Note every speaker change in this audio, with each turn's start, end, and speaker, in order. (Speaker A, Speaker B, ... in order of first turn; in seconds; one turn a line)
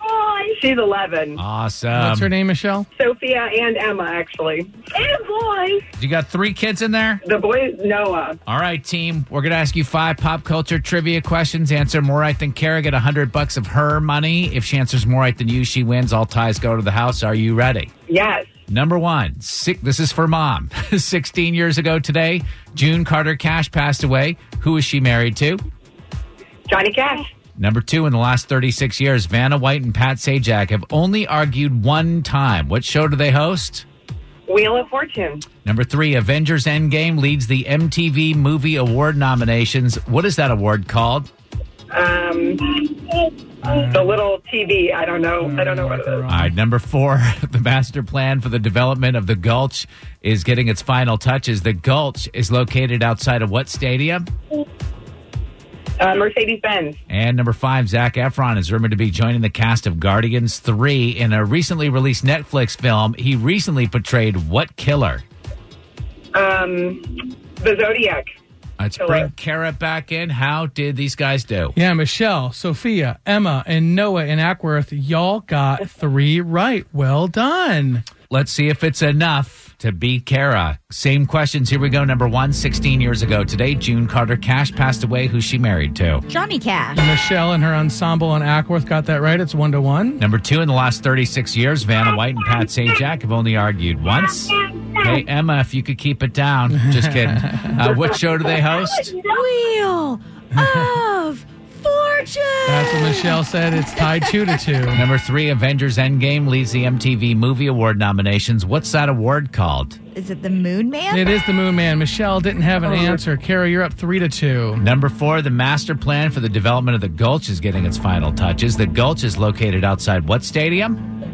Speaker A: 0.5-1.4
Speaker B: 1.4-2.3
Speaker C: 1.9-2.9
Speaker A: 2.9-5.9
Speaker B: 6.0-7.2
Speaker A: 7.2-8.4
Speaker B: 8.5-17.9
Speaker A: 18.1-18.5
Speaker B: 18.7-25.6
Speaker A: 26.7-27.3
Speaker B: 27.6-33.8
Speaker A: 34.5-35.5
Speaker B: 35.6-41.3
Speaker A: 41.9-46.2
Speaker C: 43.6-44.2
Speaker C: 45.4-46.5
Speaker B: 46.3-54.3
Speaker A: 56.0-57.0
Speaker B: 57.1-65.2
Speaker A: 66.3-68.3
Speaker B: 68.8-71.7
Speaker A: 69.0-69.3
Speaker C: 71.7-78.0
Speaker B: 78.3-86.2
Speaker D: 86.3-87.0
Speaker C: 86.9-90.2
Speaker B: 90.2-99.2
Speaker C: 96.9-97.7
Speaker D: 98.6-103.4
Speaker C: 102.7-105.0
Speaker D: 104.0-104.6
Speaker B: 104.9-110.0
Speaker D: 110.1-111.3
Speaker C: 111.1-114.8
Speaker B: 114.8-121.0